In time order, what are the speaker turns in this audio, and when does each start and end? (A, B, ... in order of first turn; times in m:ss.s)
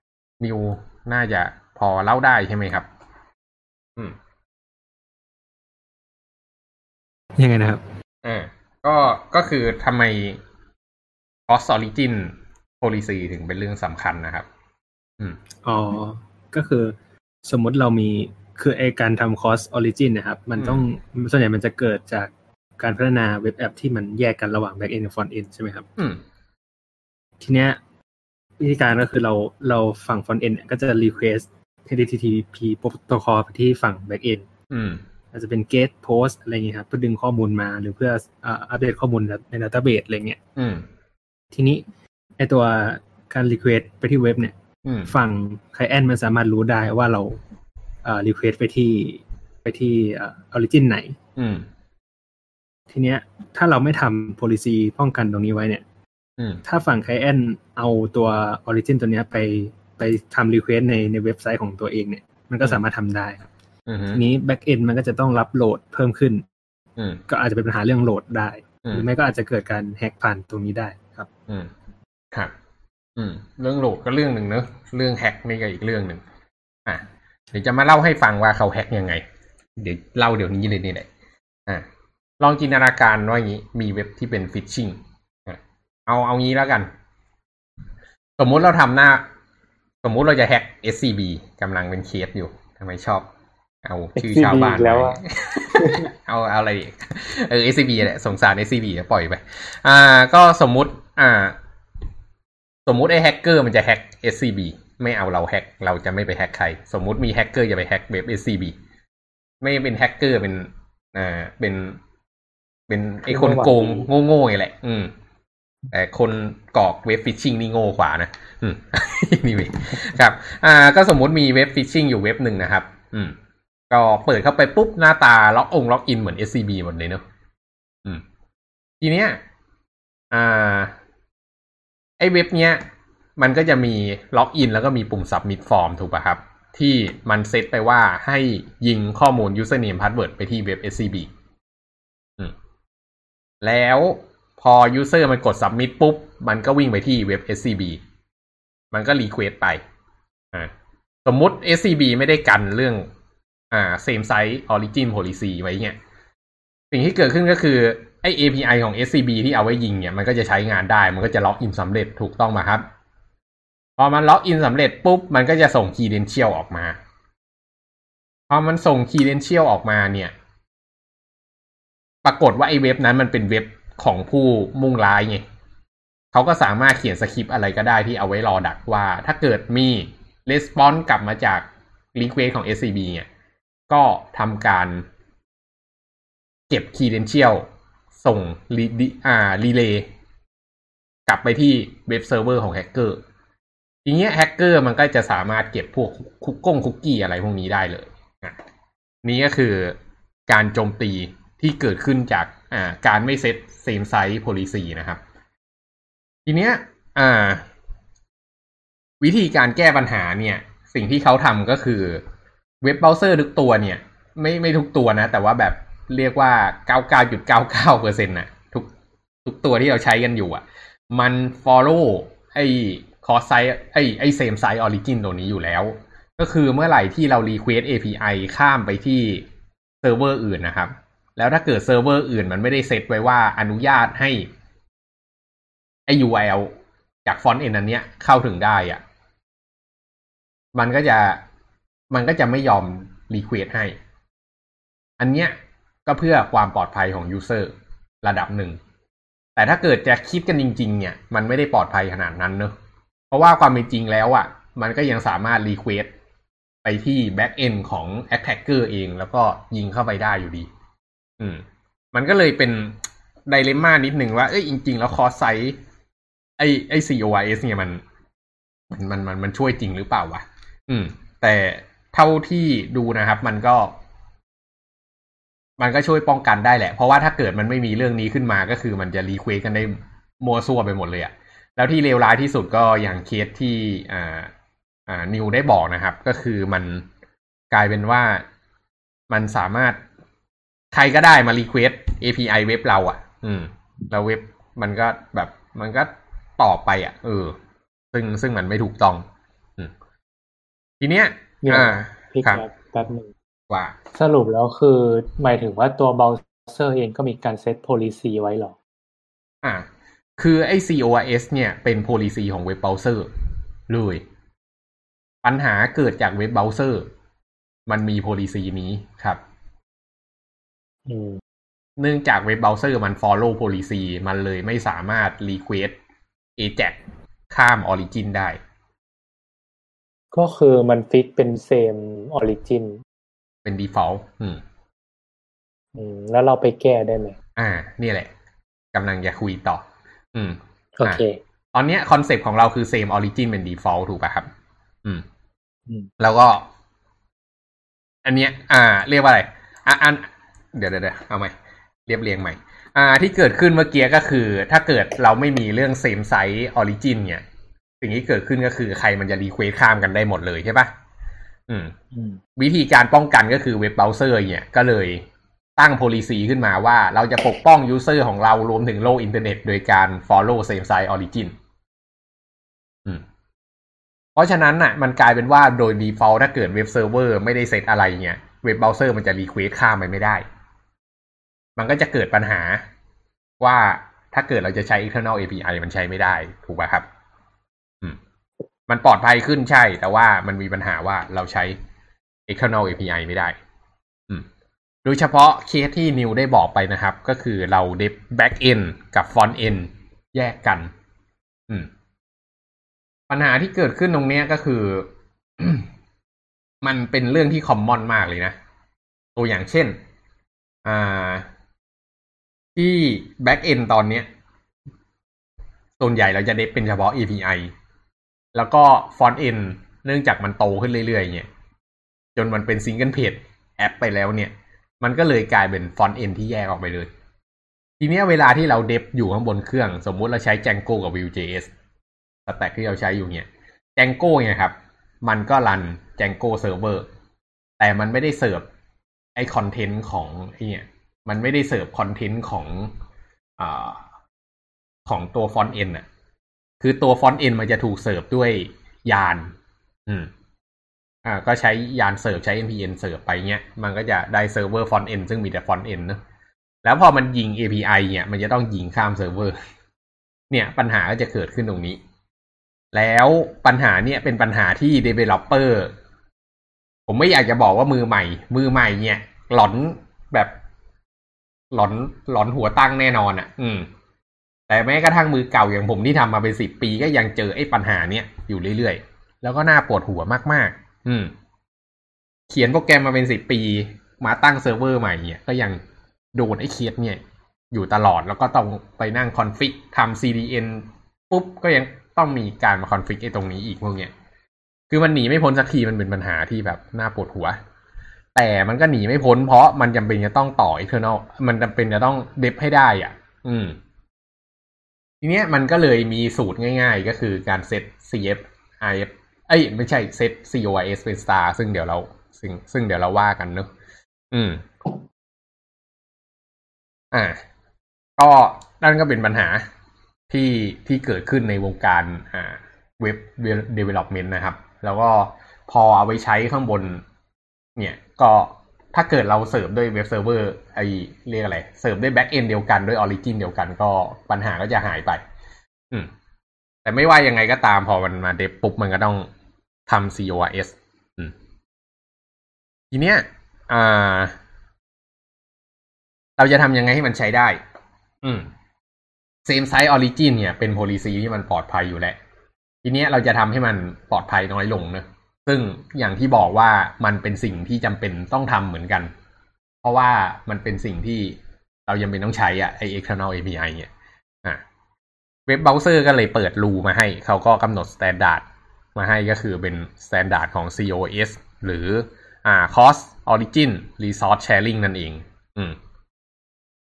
0:00.4-0:02.9 A
0:07.4-0:07.8 B
0:08.2-0:10.4 A
0:11.5-0:14.5 A
0:15.6-0:25.9 B
0:20.6-0:20.8 A
0:26.0-0:26.2 A
0:27.4-0:27.8 B
0:28.6-0:34.5 B
0:34.7-0:35.0 A
0:35.3-0:40.4 B
0:40.6-0:40.9 A
0:41.5-0:41.8 B
0:42.4-0:44.5 B
0:44.8-0:45.1 A
0:45.1-0:47.4 B
0:48.0-0:51.2 B
0:51.4-0:51.7 A
0:52.9-0:55.8 B
0:56.4-0:56.6 A
0:56.6-1:03.5 B
1:03.9-1:04.2 A
1:04.2-1:06.5 B
1:07.0-1:07.2 A
1:07.3-1:11.3 B
1:13.2-1:16.2 A
1:16.9-1:19.2 A
1:19.8-1:21.1 A
1:22.4-1:26.9 A
1:28.4-1:29.3 A
1:30.0-1:33.3 A
1:33.8-1:41.6 A
1:34.2-1:35.2 C
1:35.7-1:36.1 C
1:42.9-1:48.8 A
1:49.6-1:52.0 A
1:52.9-1:55.1 A
1:53.3-1:54.1 C
1:55.9-2:03.4 A
2:03.9-2:07.2 A
2:09.0-2:09.4 A
2:10.3-2:11.0 A
2:12.2-2:12.8 A
2:13.4-2:21.3 A
2:23.6-2:28.0 A
2:28.9-2:29.8 A
2:31.2-2:33.1 A
2:33.7-2:36.0 A
2:36.9-2:42.9 A
2:44.0-2:47.0 A
2:48.5-2:50.3 A
2:52.2-2:55.4 A
2:56.3-3:03.3 A
3:03.9-3:05.1 A
3:06.7-3:07.6 A
3:08.2-3:10.1 A
3:11.3-3:13.2 A
3:14.0-3:18.6 A
3:19.2-3:25.2 A
3:26.5-3:27.7 A
3:29.2-3:32.2 A
3:32.8-3:38.9 A
3:39.4-3:49.5 A
3:50.0-3:54.5 A
3:56.1-3:56.7 A
3:57.2-3:59.0 A
4:00.7-4:01.4 A
4:02.1-4:04.0 A
4:05.2-4:05.6 A
4:06.1-4:08.8 A
4:09.6-4:12.8 A
4:13.3-4:16.1 A
4:16.8-4:20.7 A
4:21.4-4:25.8 A
4:26.6-4:28.0 A
4:28.9-4:34.0 A
4:35.8-4:44.5 A
4:45.1-4:47.1 A
4:47.7-4:48.4 A
4:49.3-4:50.0 A
4:50.9-4:57.6 A
4:58.1-4:59.2 A
5:01.0-5:02.6 A
5:01.6-5:03.3 C
5:03.7-5:04.0 A
5:04.1-5:08.8 C
5:09.6-5:13.3 A
5:13.9-5:14.2 A
5:15.4-5:17.1 A
5:17.9-5:19.4 A
5:21.1-5:21.4 C
5:22.0-5:26.0 A
5:26.6-5:27.0 A
5:27.5-5:28.6 A
5:30.3-5:33.0 C
5:33.6-5:34.6 A
5:36.0-5:37.4 C
5:37.6-5:38.3 A
5:38.9-5:41.2 A
5:41.0-5:41.4 C
5:41.7-5:44.5 A
5:46.2-5:46.7 A
5:48.2-5:51.6 A
5:52.1-5:57.4 A
5:58.0-6:00.9 A
6:01.7-6:02.0 A
6:02.1-6:02.4 C
6:02.6-6:05.3 A
6:05.8-6:11.6 A
6:14.4-6:20.4 A
6:21.8-6:22.9 A
6:23.6-6:27.1 A
6:28.9-6:31.8 A
6:32.5-6:33.6 A
6:35.0-6:40.9 A
6:43.3-6:45.9 A
6:46.8-6:48.6 A
6:49.4-6:50.0 A
6:50.8-6:51.5 A
6:52.8-6:54.3 A
6:56.0-6:57.7 A
6:58.5-7:01.5 A
7:02.4-7:07.1 A
7:08.0-7:11.7 A
7:12.5-7:17.1 A
7:17.8-7:18.7 A
7:19.4-7:23.0 A
7:23.6-7:24.1 A
7:25.1-7:26.1 A
7:26.8-7:29.6 A
7:30.1-7:30.3 A
7:31.2-7:36.2 A
7:36.8-7:39.6 A
7:40.5-7:42.0 A
7:42.9-7:45.9 A
7:47.1-7:50.5 A
7:51.7-7:53.9 A
7:54.7-8:01.3 A
8:02.5-8:05.8 A
8:06.3-8:14.1 A
8:14.9-8:17.6 A
8:18.4-8:23.8 A
8:25.2-8:33.7 A
8:34.3-8:35.0 A
8:37.1-8:37.4 A
8:38.2-8:39.7 A
8:40.3-8:47.0 A
8:47.8-8:55.2 A
8:56.8-8:59.3 A
8:59.9-9:01.4 A
9:02.9-9:04.4 A
9:06.4-9:07.6 A
9:08.2-9:08.5 A
9:09.4-9:12.2 A
9:12.8-9:19.1 A
9:19.8-9:23.9 A
9:25.5-9:35.8 A